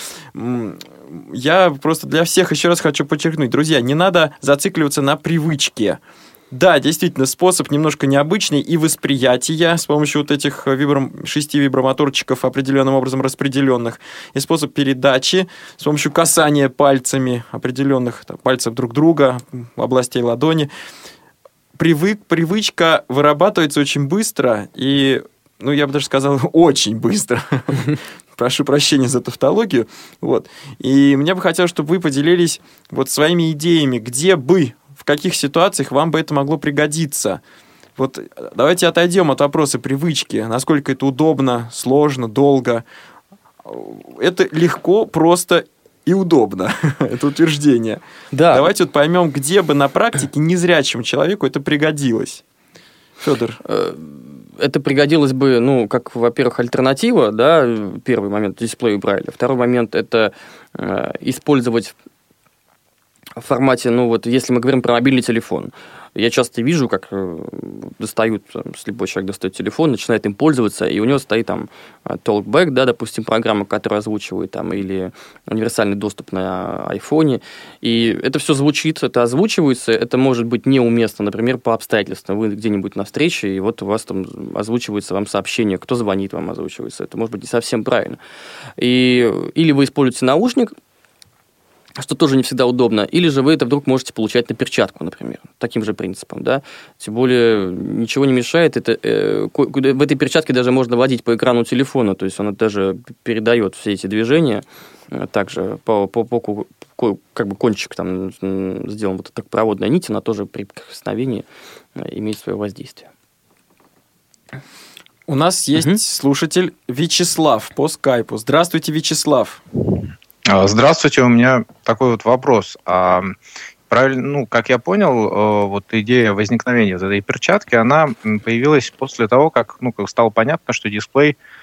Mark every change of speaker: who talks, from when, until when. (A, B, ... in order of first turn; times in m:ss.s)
0:00.3-0:06.0 A
0:06.5-0:20.7 A
0:21.8-0:37.4 A
0:38.0-0:42.8 A
0:43.6-0:52.4 A
0:48.3-0:48.6 B
0:53.2-0:53.6 A
0:53.6-1:01.9 B
1:03.4-1:28.2 B
1:28.8-1:30.7 B
1:32.0-1:51.4 B
1:52.0-1:53.1 B
1:55.3-1:59.6 A
2:00.5-2:03.3 C
2:03.9-2:11.4 C